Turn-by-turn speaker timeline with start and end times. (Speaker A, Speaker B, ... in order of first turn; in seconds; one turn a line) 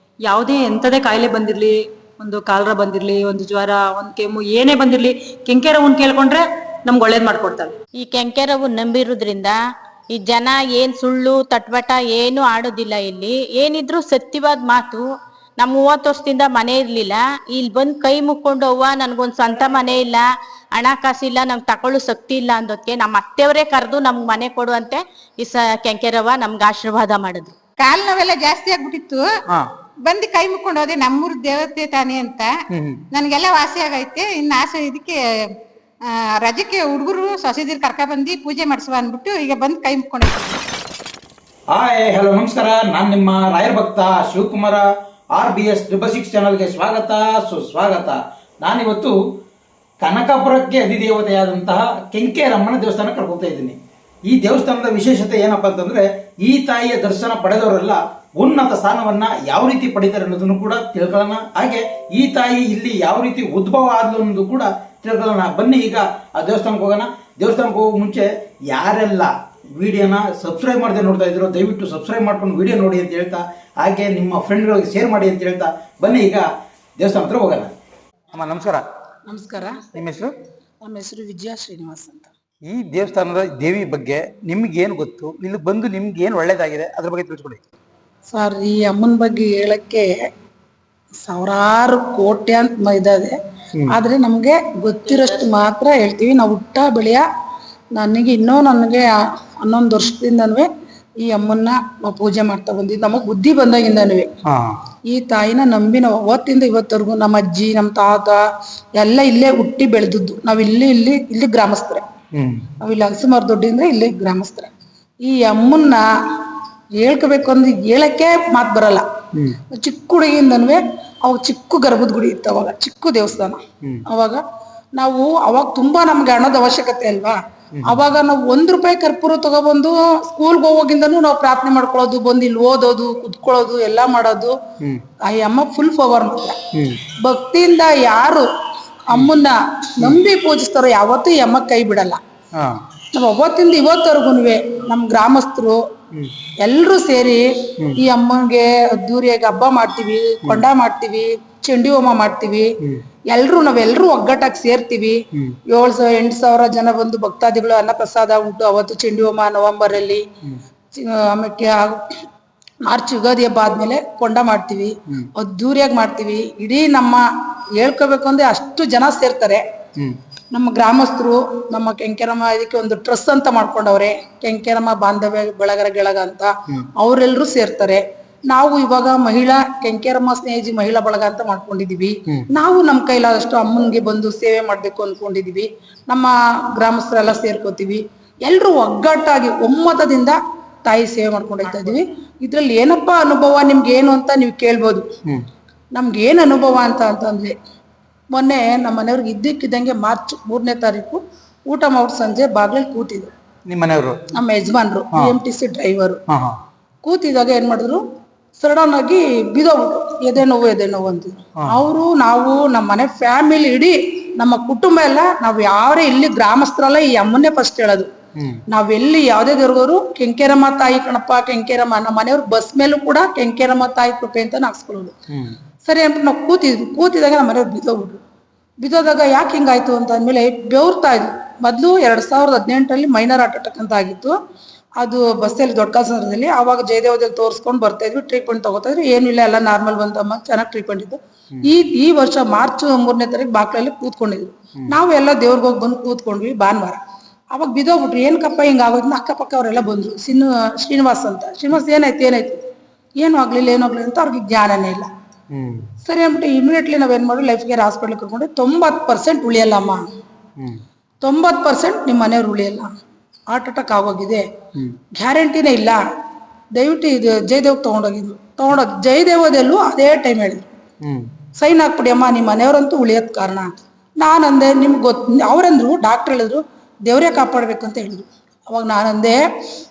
Speaker A: 0.3-7.7
Speaker B: 8.0-9.6
Speaker B: 10.1-15.0
Speaker B: 15.6-27.6
Speaker C: 27.8-29.2
Speaker C: 30.1-32.5
Speaker D: 32.7-33.0
Speaker C: 33.1-35.2
Speaker C: 36.4-40.6
Speaker D: 41.7-49.1
Speaker D: 50.0-53.8
Speaker D: 54.3-76.5
Speaker D: 77.0-77.7
Speaker D: 78.3-78.8
Speaker E: 79.3-80.0
Speaker D: 79.9-80.3
Speaker E: 80.8-82.3
Speaker D: 82.7-87.6
Speaker E: 88.3-90.1
Speaker E: 91.2-93.3
Speaker E: 93.9-97.2
Speaker B: 95.0-95.5
Speaker E: 98.0-100.7
Speaker E: 101.2-104.3
Speaker D: 104.5-104.8
Speaker E: 105.1-108.4
Speaker E: 109.0-112.0
Speaker D: 112.3-112.7
Speaker E: 112.8-114.7
Speaker E: 115.2-116.0
Speaker E: 117.0-119.0
Speaker E: 119.7-124.4
Speaker E: 125.0-134.5
Speaker D: 127.8-128.0
Speaker E: 135.2-136.6
Speaker D: 136.7-137.0
Speaker E: 137.2-138.5
Speaker E: 139.1-142.2
Speaker E: 143.1-145.8
Speaker E: 146.6-152.7
Speaker E: 153.3-160.2
Speaker E: 160.9-162.2
Speaker E: 162.8-167.2
Speaker E: 167.8-169.6
Speaker E: 170.5-195.0
Speaker E: 195.9-197.5
Speaker E: 198.3-203.3
Speaker D: 203.7-204.2
Speaker E: 204.3-206.2
Speaker D: 206.3-206.6
Speaker E: 207.0-208.0
Speaker E: 208.6-218.1
Speaker D: 218.3-218.6
Speaker E: 218.7-225.1
Speaker D: 225.3-225.6
Speaker E: 225.8-228.2
Speaker E: 228.8-234.3
Speaker E: 235.0-247.0
Speaker E: 247.5-252.6
Speaker E: 253.2-255.1
Speaker D: 255.5-255.9
Speaker E: 256.0-260.0
Speaker E: 261.2-262.9
Speaker E: 263.5-264.4
Speaker E: 265.2-266.0
Speaker E: 266.8-270.7
Speaker D: 271.0-271.3
Speaker E: 271.6-279.4